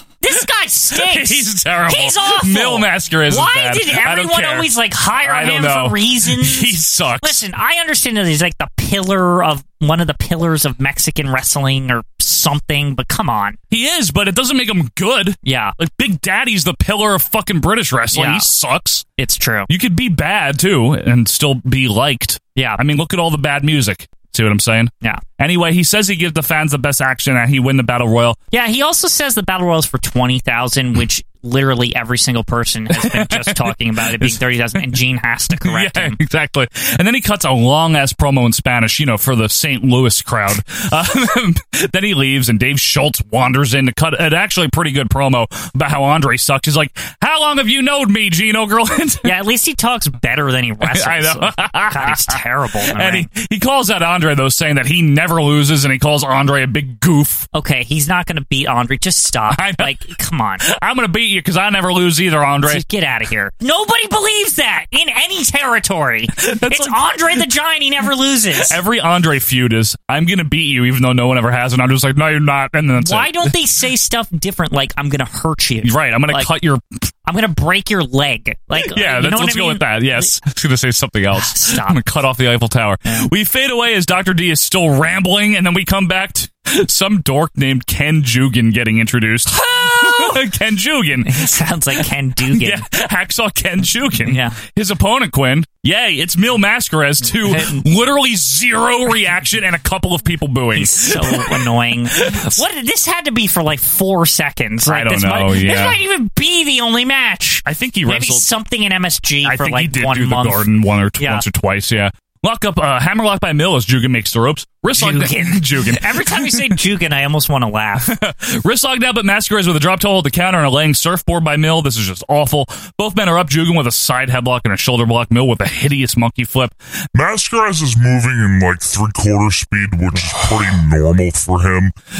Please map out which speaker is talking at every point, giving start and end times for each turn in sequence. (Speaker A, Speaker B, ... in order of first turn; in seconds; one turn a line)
Speaker A: 0.2-13.6
Speaker B: 0.3-4.7
Speaker B: 5.2-7.4
Speaker B: 13.7-19.0
Speaker A: 15.4-15.7
Speaker A: 18.1-18.5
Speaker A: 19.2-19.7
Speaker B: 19.7-28.4
Speaker A: 22.6-22.8
Speaker A: 28.5-36.2
Speaker B: 32.9-35.0
Speaker B: 35.6-49.3
Speaker A: 49.2-53.3
Speaker B: 50.8-57.5
Speaker A: 57.5-60.6
Speaker B: 59.5-60.0
Speaker B: 60.6-62.8
Speaker A: 62.6-68.8
Speaker B: 66.4-67.4
Speaker B: 68.5-73.5
Speaker A: 73.0-76.5
Speaker B: 75.8-76.8
Speaker A: 77.2-80.3
Speaker B: 78.8-92.0
Speaker A: 81.3-82.0
Speaker A: 89.6-90.4
Speaker A: 91.2-92.8
Speaker B: 92.5-102.6
Speaker A: 94.2-94.6
Speaker A: 97.2-97.8
Speaker A: 100.7-110.6
Speaker B: 104.8-106.0
Speaker B: 107.7-108.5
Speaker B: 109.4-116.8
Speaker A: 111.2-111.4
Speaker A: 114.9-118.1
Speaker B: 118.1-126.7
Speaker C: 127.1-131.9